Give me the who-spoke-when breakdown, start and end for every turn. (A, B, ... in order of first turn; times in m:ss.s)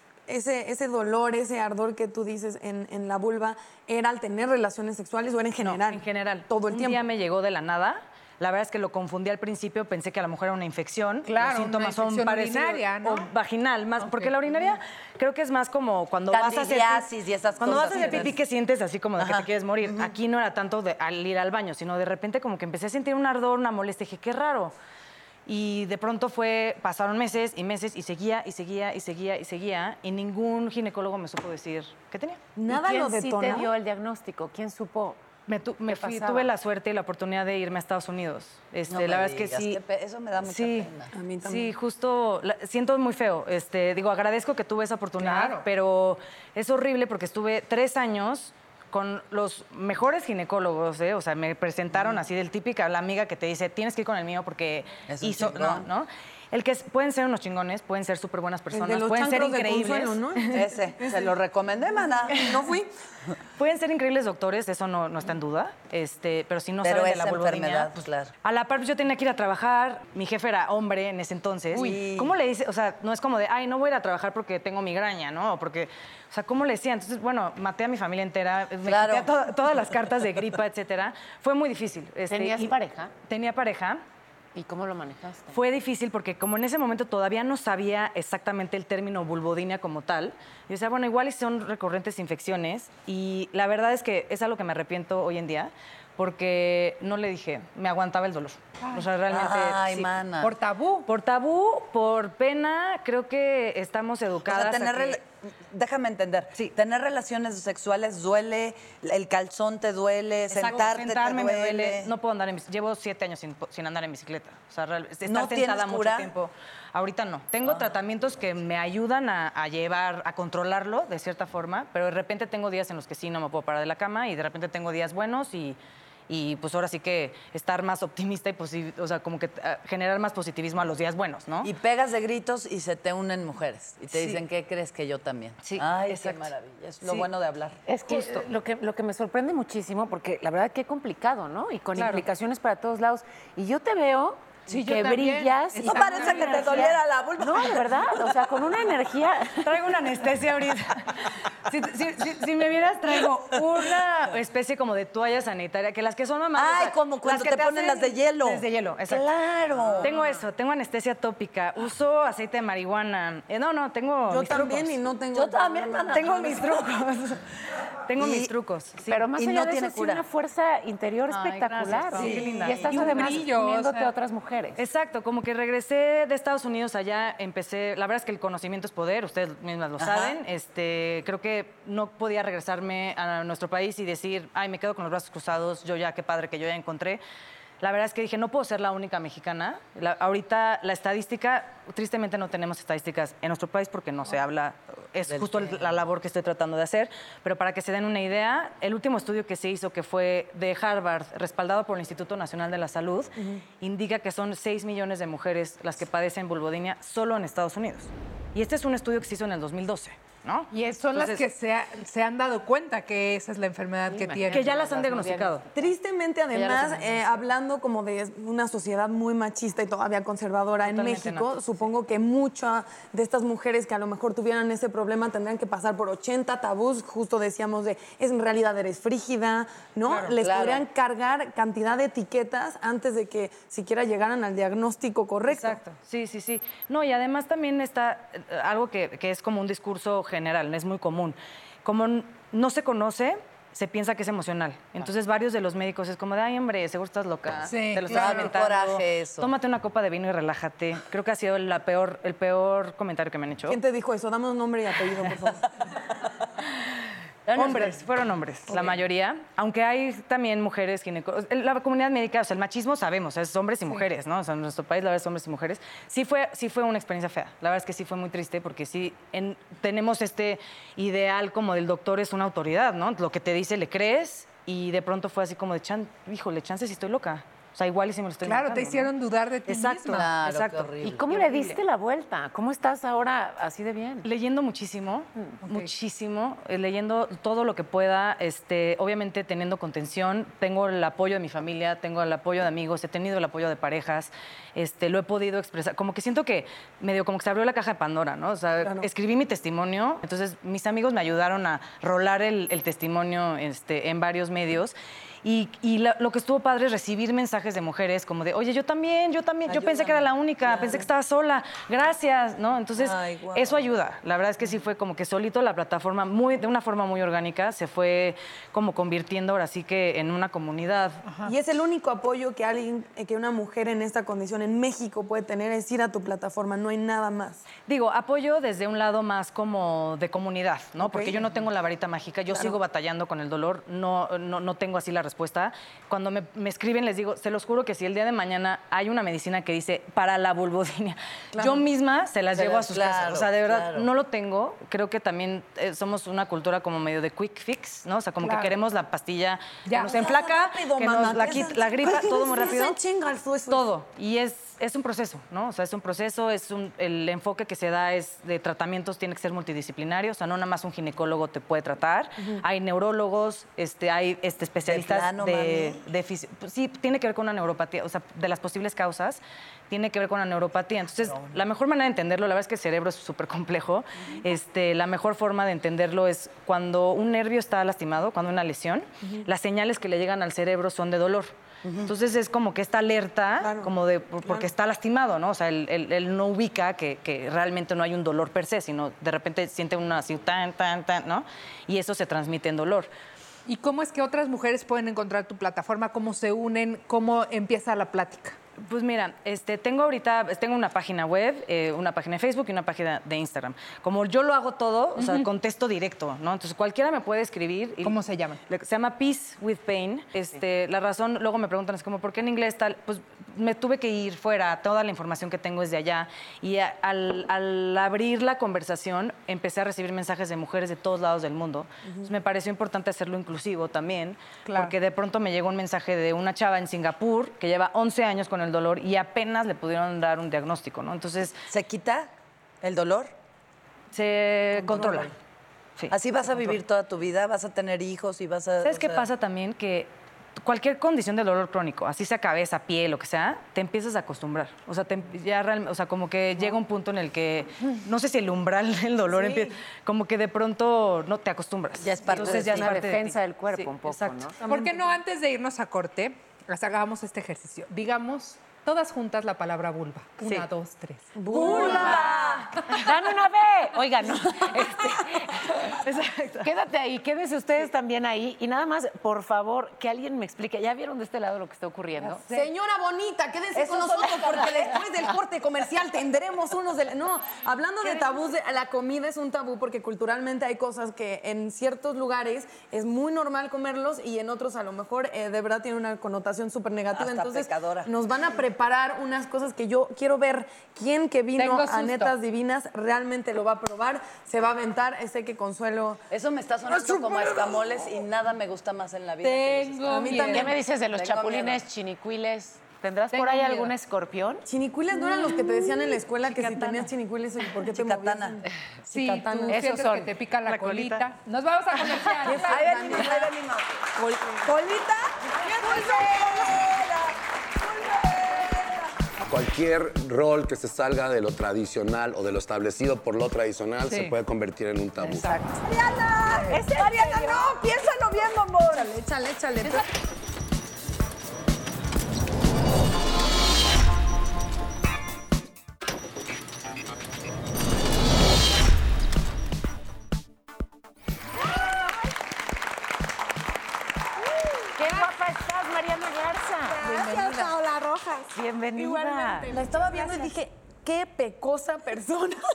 0:00.3-0:07.0 A
0:05.6-0:24.7 B
0:11.2-0:13.3 C
0:14.0-0:14.3 C
0:16.3-0:18.4 D
0:19.2-0:20.1 D
0:25.5-0:32.4 B
0:32.6-0:33.7 A
0:32.7-0:35.2 E
0:35.5-0:39.8 B
0:35.9-0:36.5 E
0:38.9-0:41.1 D
0:40.4-0:40.9 B
0:41.1-0:41.7 A
0:41.4-1:00.3 B
0:45.2-0:45.7 C
0:55.1-0:55.9 D
0:58.7-1:01.4 A
1:00.5-1:02.5 D
1:02.3-1:02.9 A
1:03.6-1:24.0 B
1:06.8-1:08.3 D
1:11.7-1:12.4 D
1:18.8-1:19.3 D
1:22.3-1:23.1 E
1:24.6-1:25.6 E
1:25.5-1:40.1 B
1:38.8-1:39.1 C
1:39.3-1:40.5 D
1:40.4-1:41.1 C
1:41.1-1:45.2 B
1:44.4-1:52.1 D
1:50.5-2:05.8 B
1:55.3-1:56.3 D
2:06.3-2:11.7 B
2:11.6-2:17.8 D
2:14.1-2:14.4 B
2:15.6-2:16.5 B
2:17.9-2:29.8 E
2:18.1-2:18.4 B
2:22.0-2:22.2 B
2:24.7-2:27.0 C
2:25.8-2:28.3 D
2:29.6-2:39.3 B
2:36.6-2:40.1 D
2:40.0-2:45.0 B
2:44.3-2:46.8 A
2:45.3-2:47.0 D
2:46.1-2:47.4 B
2:48.1-2:49.2 B
2:48.2-2:48.5 D
2:49.1-2:54.8 E
2:49.3-2:50.2 D
2:51.3-2:53.4 B
2:52.1-2:53.0 D
2:52.2-2:54.1 C
2:54.8-3:07.2 B
3:00.0-3:00.4 D
3:07.8-3:31.4 B
3:15.3-3:15.8 D
3:23.4-3:23.6 A
3:30.7-3:34.8 C
3:34.1-3:35.8 E
3:34.5-3:35.6 B
3:35.7-3:55.8 A
3:36.6-3:37.2 E
3:40.8-3:41.5 B
3:50.1-3:50.4 B
3:50.4-3:50.8 D
3:55.5-4:13.8 B
4:07.6-4:08.5 C
4:08.1-4:09.5 D
4:13.7-4:15.7 A
4:17.5-4:18.0 D
4:17.5-4:39.1 B
4:38.4-4:40.3 C
4:39.7-4:40.9 B
4:40.1-4:41.4 D
4:41.0-4:44.3 E
4:44.2-5:21.2 B
4:45.6-4:45.9 C
4:58.8-4:59.1 A
5:09.7-5:11.1 D
5:13.0-5:13.9 D
5:21.4-5:27.6 A
5:27.9-5:53.0 B
5:31.0-5:31.4 A
5:41.5-5:41.8 A
5:42.6-5:44.1 D
5:48.4-5:48.7 C
5:49.9-5:50.2 C
5:50.0-5:53.9 A
5:53.7-6:21.5 B
6:04.9-6:06.0 D
6:21.8-6:22.1 D
6:22.0-6:33.1 B
6:23.6-6:23.9 A
6:33.7-6:38.6 C
6:38.8-7:11.6 B
6:45.2-6:45.4 C
6:48.0-6:48.6 C
7:04.7-7:05.0 C
7:11.7-7:12.3 D
7:12.8-7:13.3 D
7:14.1-7:15.3 B
7:14.8-7:15.3 D
7:16.1-7:19.3 D
7:18.8-7:34.4 B
7:32.0-7:33.0 D
7:32.3-7:34.6 E
7:34.6-7:35.0 A
7:34.6-7:41.3 C
7:40.4-7:40.7 B
7:41.4-7:42.4 A
7:41.5-7:42.8 D
7:41.6-7:42.6 F
7:41.7-7:42.2 E
7:42.8-7:46.0 E
7:46.0-7:46.7 B
7:46.6-7:52.4 E
7:52.2-7:52.7 C
7:52.5-8:16.2 A
8:07.1-8:08.1 D
8:11.6-8:12.3 C
8:16.3-8:21.8 D
8:16.9-8:18.0 A
8:19.4-8:20.8 C
8:20.0-8:20.8 A
8:20.4-8:24.7 E
8:23.3-8:23.9 C
8:24.7-8:29.8 A
8:26.6-8:26.9 B
8:27.9-8:28.6 D
8:29.1-8:33.5 C
8:29.7-8:30.3 E
8:30.6-8:31.3 B
8:32.4-8:33.5 A
8:32.5-8:34.0 D
8:34.6-8:36.9 A
8:35.8-8:36.5 F
8:36.0-8:37.0 D
8:39.5-8:45.6 G
8:44.1-8:44.4 C
8:45.2-8:45.7 C
8:45.8-8:50.1 A
8:46.8-8:47.7 F
9:04.6-9:04.9 F
9:05.0-9:07.1 E
9:06.9-9:10.6 F
9:07.1-9:07.7 C
9:08.5-9:09.7 E
9:09.7-9:12.6 A